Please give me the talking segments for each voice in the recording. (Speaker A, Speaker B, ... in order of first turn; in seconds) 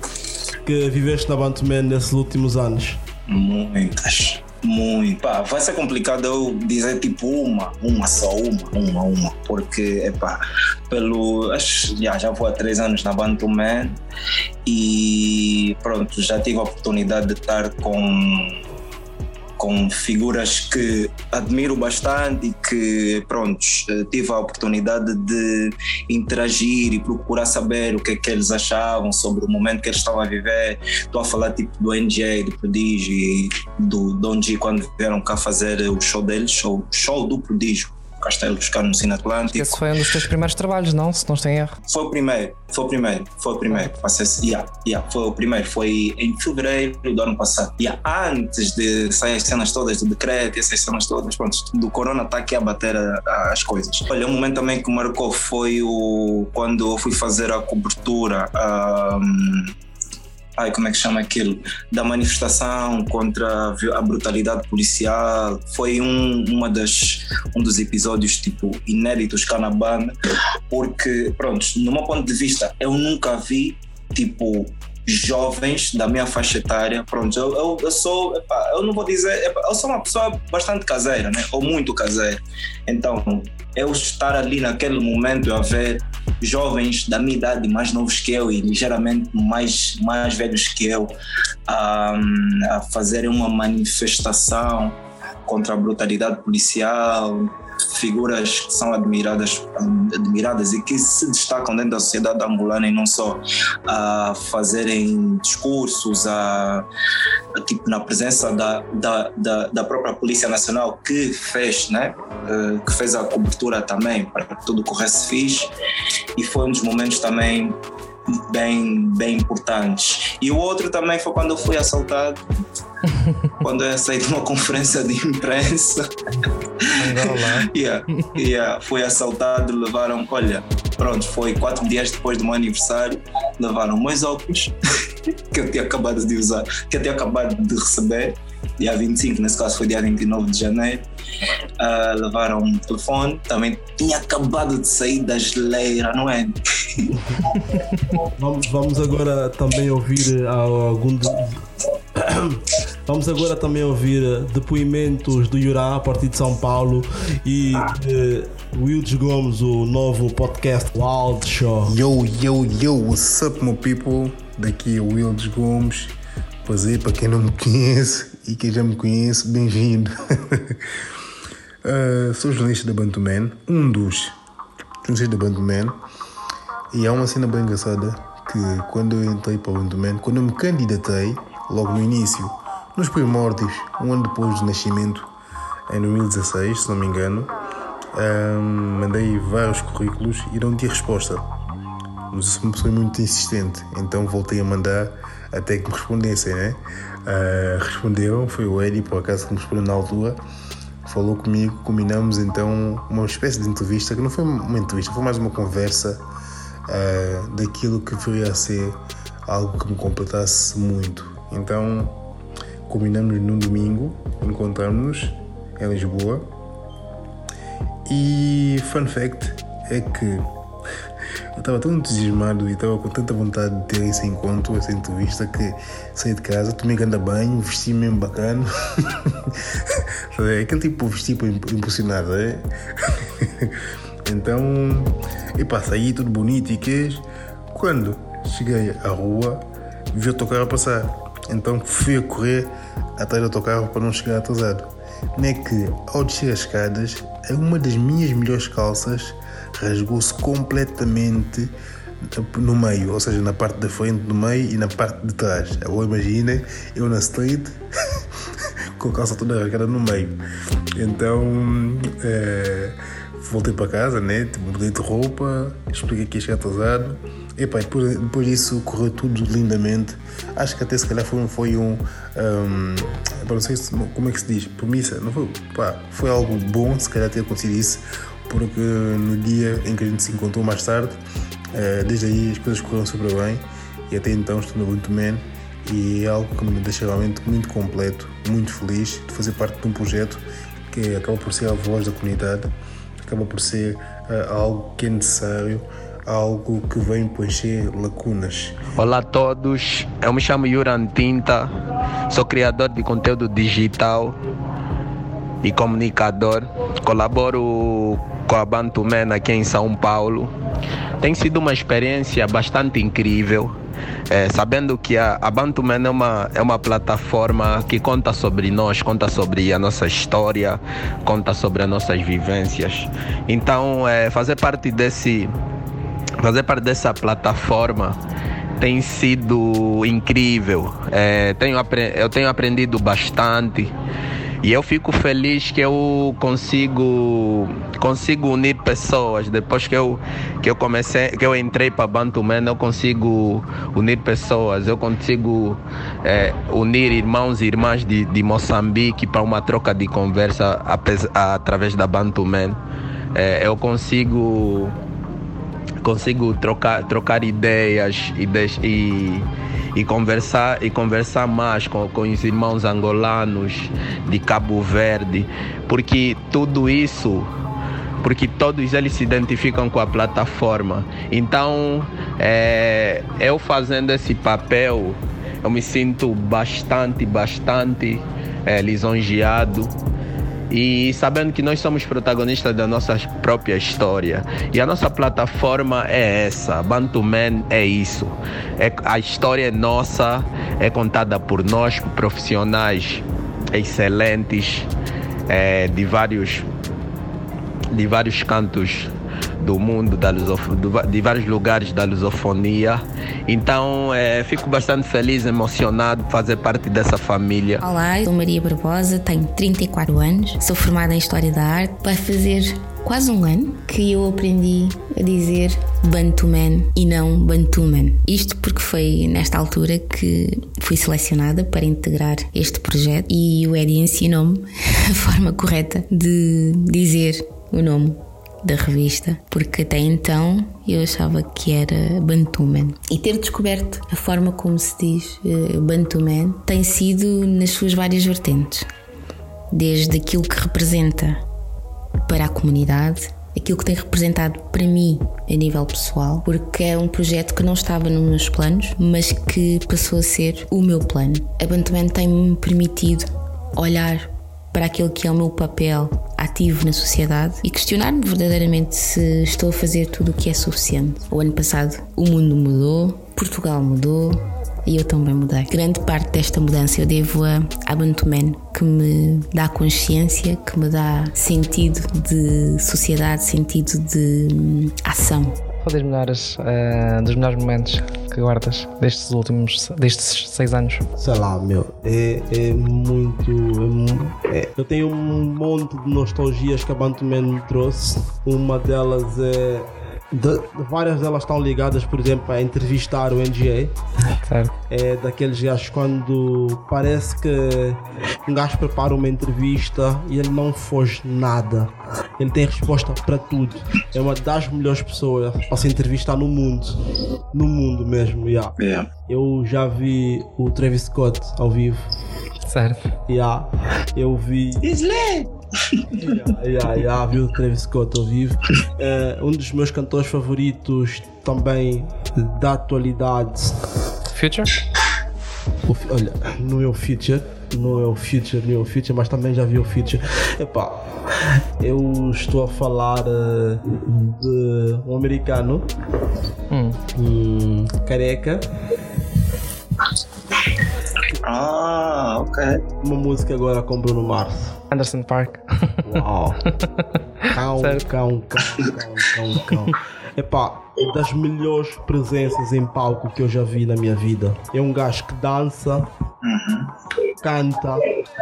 Speaker A: 0.6-3.0, 147.1-147.4, 148.3-151.6, 152.1-161.9, 481.2-493.9, 494.9-507.0, 507.5-508.8, 509.3-512.0, 513.3-514.9, 516.1-523.8, 525.8-535.9, 537.1-538.6, 543.0-544.8, 546.0-546.6, 547.5-556.1, 557.4-558.0
Speaker B: 3.3-14.0, 14.6-18.6, 19.6-39.9, 41.9-59.7, 60.6-70.1, 70.7-91.1, 91.7-106.9, 107.6-115.7, 116.3-117.8, 118.3-122.4, 123.6-126.0, 126.8-134.7, 135.5-141.0, 141.8-147.2, 508.8-509.1, 514.8-516.5, 541.4-542.8, 556.4-556.9
Speaker C: 39.5-41.8, 127.0-128.3, 475.8-481.0, 494.5-494.7, 512.6-513.1, 524.3-524.7, 536.7-537.0, 544.9-546.1, 546.9-548.0
Speaker D: 161.9-170.8, 171.8-174.4, 175.0-176.0, 176.9-185.3, 185.9-187.5, 188.1-191.4, 192.3-200.4, 201.0-206.2, 206.9-212.2, 212.9-216.5, 218.1-220.4, 221.6-251.7, 252.2-257.8, 259.0-260.4, 261.0-281.2, 281.7-292.7, 293.2-298.8
Speaker E: 298.9-301.7, 302.3-304.3, 305.6-310.5, 311.2-313.7, 314.3-325.5, 326.4-328.2, 328.8-333.9, 334.6-352.8, 353.3-354.9, 356.0-367.5, 368.2-379.9, 380.7-393.2, 393.7-394.9, 395.5-396.7, 397.9-407.8
Speaker F: 407.8-438.9, 439.7-441.4, 442.2-475.6